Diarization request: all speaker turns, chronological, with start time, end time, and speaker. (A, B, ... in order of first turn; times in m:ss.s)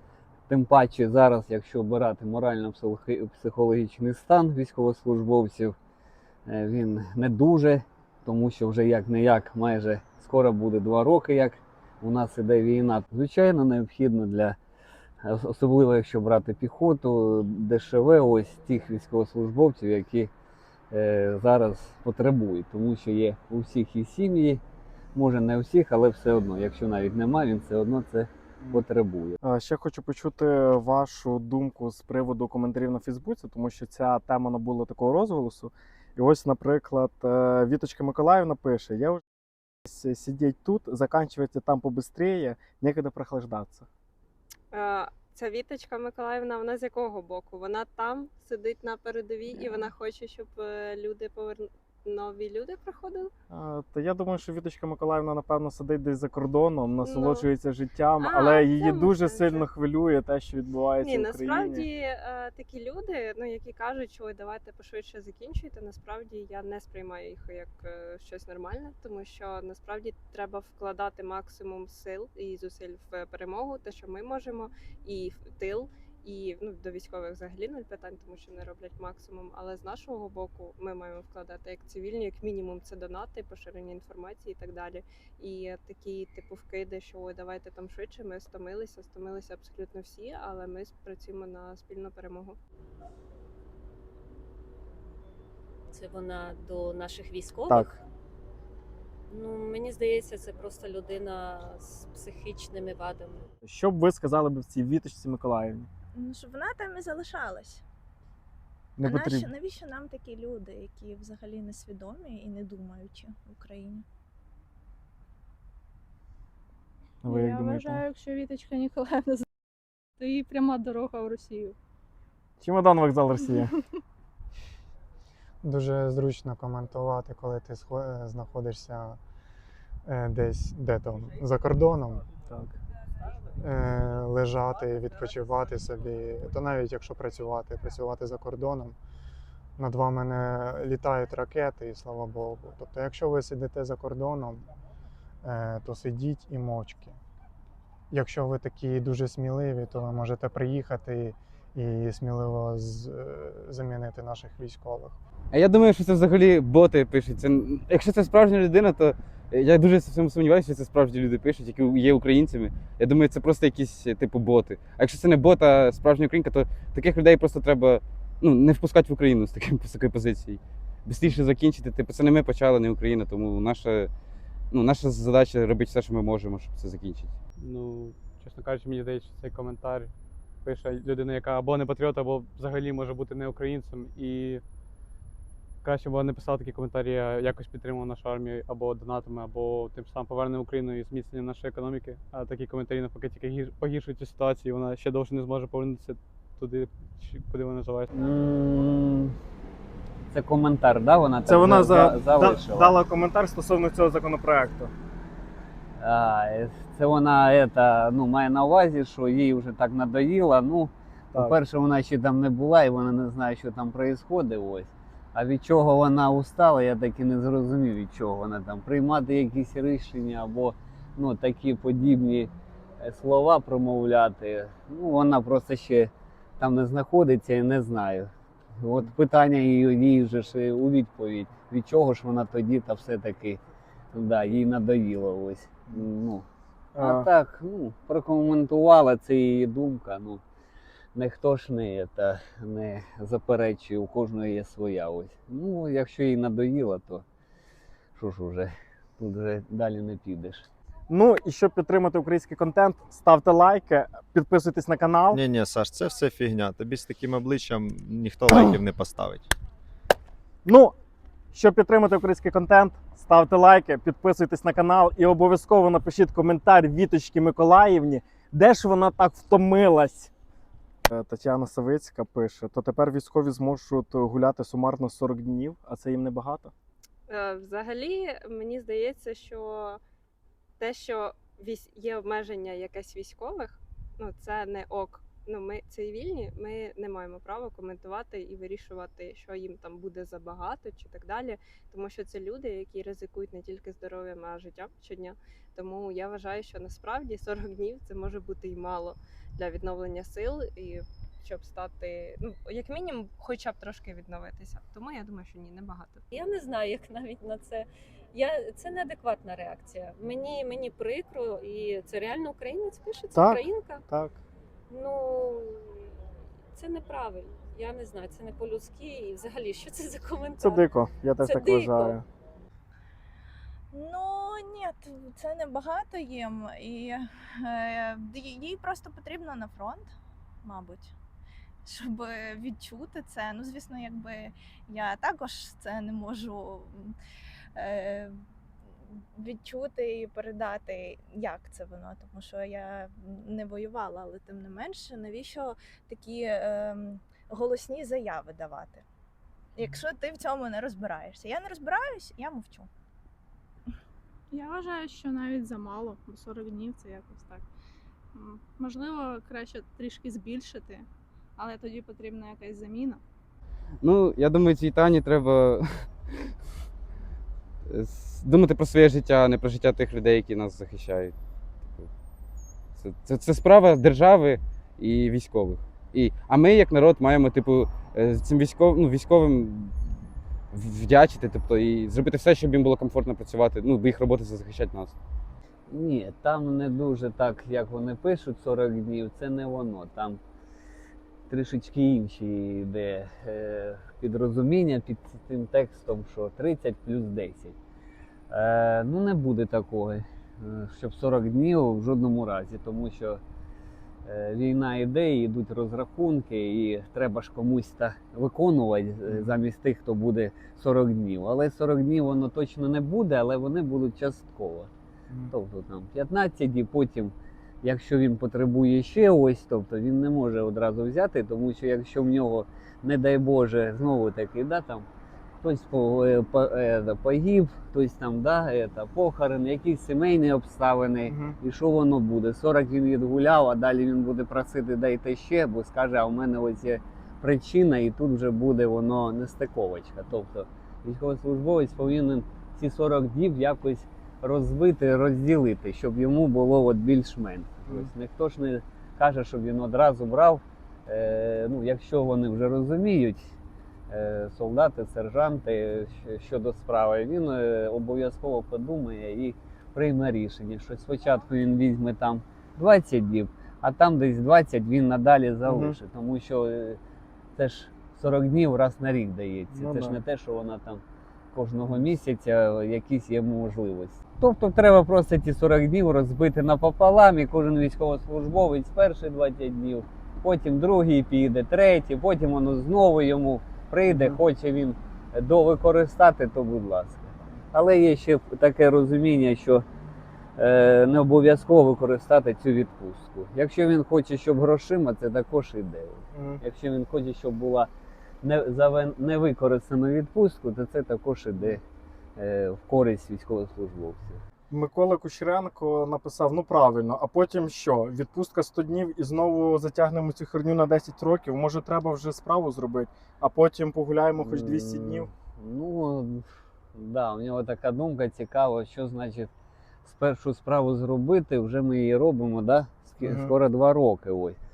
0:00.5-0:05.7 A
0:06.5-0:14.6 A
0:15.2-0:20.3 A
0:20.9-0:24.6 A
0:25.2-0:29.4 A
0:29.4-0:39.2 B
0:39.9-0:43.9 B
0:44.7-0:53.3 C
0:53.5-1:01.8 B
0:57.0-0:57.5 C
0:58.2-0:59.7 C
1:01.0-1:32.6 C
1:35.9-1:37.9 D
1:37.7-1:38.0 B
1:39.3-1:43.5 D
1:43.6-1:45.9 B
1:46.2-1:47.8 E
1:49.0-1:49.5 B
1:49.0-1:54.0 E
1:57.2-1:58.0 B
1:57.2-1:59.5 F
2:00.2-2:01.8 F
2:02.6-2:03.7 B
2:05.6-2:09.2 G
2:10.1-2:12.3 G
2:12.4-2:12.7 B
2:13.6-2:19.0 G
2:19.8-2:24.7 G
2:25.4-2:27.2 G
2:28.1-2:35.2 G
2:35.5-2:54.1 H
2:54.7-2:57.3 H
2:57.6-3:00.1 I
3:00.6-3:04.6 I
3:05.8-3:18.1 I
3:18.1-3:19.3 A
3:20.3-3:23.0 A
3:21.5-3:24.9 B
3:26.0-3:48.3 A
3:48.8-3:53.6 A
3:54.1-3:56.4 A
3:57.0-3:57.3 B
3:57.0-4:00.4 A
4:01.2-4:07.2 A
4:08.2-4:10.6 A
4:11.1-4:15.4 B
4:15.3-4:19.5 J
4:20.6-4:21.0 B
4:21.5-4:30.3 B
4:31.1-4:36.7 B
4:37.3-4:40.0 C
4:40.8-5:06.2 C
5:06.3-5:14.0 D
5:13.4-5:14.4 B
5:14.9-5:16.1 D
5:16.7-5:20.9 D
5:20.6-5:22.2 B
5:21.4-5:22.2 D
5:23.9-5:30.1 E
5:30.6-5:31.2 E
5:31.8-5:37.2 E
5:37.8-5:38.4 E
5:39.4-5:49.0 E
5:49.8-5:52.9 E
5:54.5-5:57.6 F
5:58.4-6:01.1 F
6:01.6-6:03.2 F
6:04.0-6:06.5 H
6:07.9-6:11.3 H
6:13.0-6:20.2 H
6:20.7-6:25.2 H
6:25.9-6:30.4 A
6:31.5-6:37.8 A
6:38.5-6:43.4 A
6:44.3-6:54.9 A
6:49.3-6:49.6 B
6:55.5-7:05.0 A
7:05.6-7:33.4 A
7:11.3-7:11.6 B
7:34.1-7:47.0 A
7:45.7-7:46.0 B
7:47.6-7:51.0 A
7:49.7-7:50.2 B
7:51.5-8:09.8 A
8:04.1-8:04.4 B
8:10.6-8:17.9 A
8:16.3-8:16.6 B
8:18.4-8:21.8 A
8:22.4-8:24.4 A
8:24.7-8:35.3 B
8:34.4-8:36.4 A
8:37.0-8:39.5 A
8:40.0-8:44.6 A
8:43.2-8:43.6 B